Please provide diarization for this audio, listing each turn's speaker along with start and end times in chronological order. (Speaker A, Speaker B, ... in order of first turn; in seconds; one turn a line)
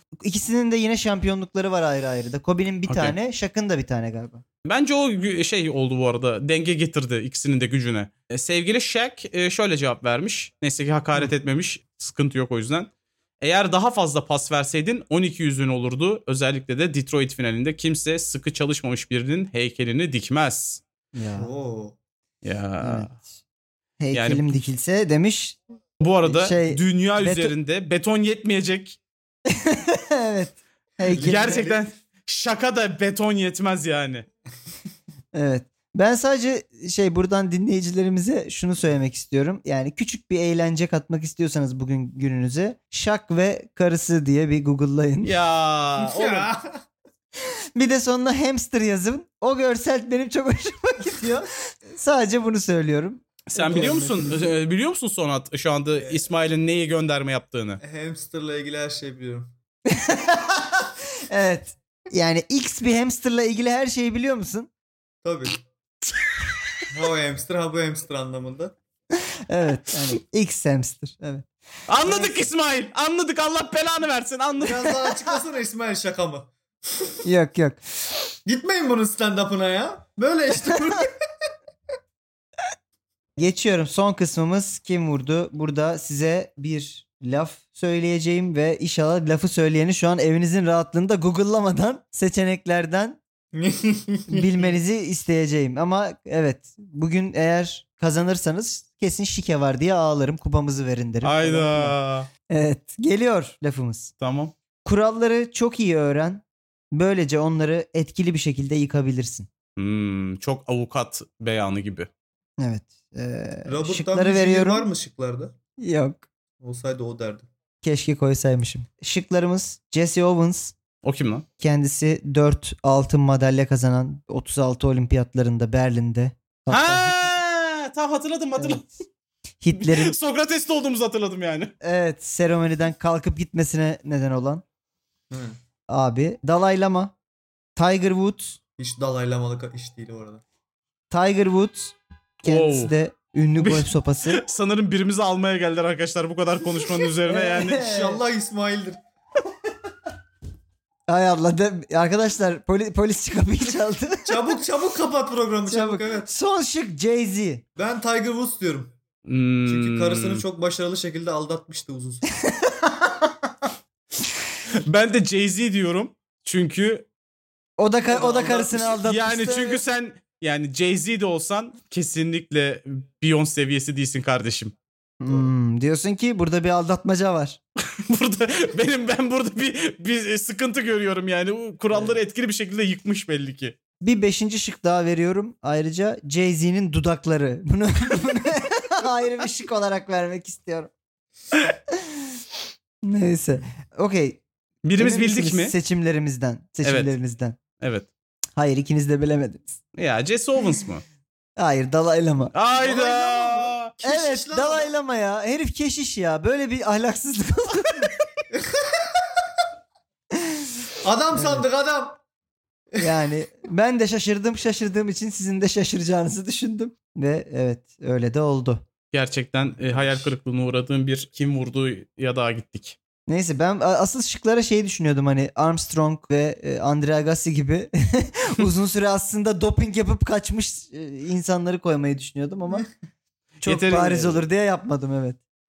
Speaker A: 0.2-4.4
Speaker B: 2.9-3.1
Speaker B: 4.6-20.8
Speaker A: 21.1-21.5
Speaker C: 21.3-21.9
Speaker B: 22.4-23.1
Speaker A: 22.8-23.3
Speaker A: 24.0-25.6
Speaker B: 24.1-24.6
Speaker B: 26.0-29.0
Speaker A: 26.2-27.5
Speaker A: 29.5-31.7
Speaker C: 31.1-31.8
Speaker B: 31.1-34.2
Speaker A: 35.3-45.3
Speaker B: 45.2-46.5
Speaker C: 46.0-46.8
Speaker A: 47.7-54.4
Speaker B: 53.5-57.8
Speaker C: 57.8-59.5
Speaker A: 59.9-64.7
Speaker C: 65.2-65.6
Speaker C: 66.9-68.7
Speaker A: 69.1-71.5
Speaker B: 71.9-74.9
Speaker A: 72.0-72.5
Speaker C: 74.6-77.2
Speaker A: 74.9-75.1
Speaker A: 77.2-77.8
Speaker C: 78.4-81.1
Speaker A: 83.4-93.2
Speaker C: 93.5-94.7
Speaker A: 94.3-102.0
Speaker B: 101.2-102.3
Speaker A: 102.5-104.1
Speaker B: 104.2-104.5
Speaker A: 104.8-109.5
Speaker B: 109.8-112.1
Speaker A: 112.6-114.9
Speaker C: 113.7-115.5
Speaker A: 115.8-116.2
Speaker C: 116.6-117.5
Speaker A: 117.8-120.7
Speaker B: 121.0-121.4
Speaker A: 121.6-127.3
Speaker B: 126.7-128.8
Speaker A: 128.6-128.9
Speaker A: 129.6-130.2
Speaker B: 129.7-131.7
Speaker A: 131.8-134.6
Speaker C: 135.3-135.6
Speaker A: 135.9-137.1
Speaker A: 137.8-138.6
Speaker C: 138.8-140.4
Speaker A: 141.1-144.4
Speaker B: 142.4-142.9
Speaker B: 143.6-147.8
Speaker A: 147.2-148.2
Speaker C: 147.7-149.0
Speaker A: 151.1-154.3
Speaker C: 154.2-156.3
Speaker A: 155.7-157.6
Speaker C: 157.8-158.9
Speaker B: 159.2-160.4
Speaker C: 159.6-162.2
Speaker A: 162.4-163.3
Speaker B: 164.8-167.1
Speaker A: 167.8-169.8
Speaker C: 168.1-168.8
Speaker B: 168.8-174.7
Speaker A: 175.2-177.6
Speaker B: 177.9-183.7
Speaker A: 184.0-190.9
Speaker A: 193.0-194.4
Speaker B: 194.8-195.7
Speaker A: 194.9-197.6
Speaker B: 196.8-197.2
Speaker B: 197.8-198.1
Speaker A: 198.6-199.8
Speaker B: 199.9-201.0
Speaker A: 201.6-202.5
Speaker B: 202.5-203.9
Speaker C: 202.8-204.9
Speaker A: 204.0-208.2
Speaker C: 208.5-209.2
Speaker A: 210.3-210.7
Speaker C: 211.0-212.2
Speaker A: 211.3-211.6
Speaker A: 213.0-218.8
Speaker B: 219.1-223.0
Speaker C: 219.6-220.3
Speaker A: 223.3-232.9
Speaker B: 233.6-234.4
Speaker A: 233.6-235.4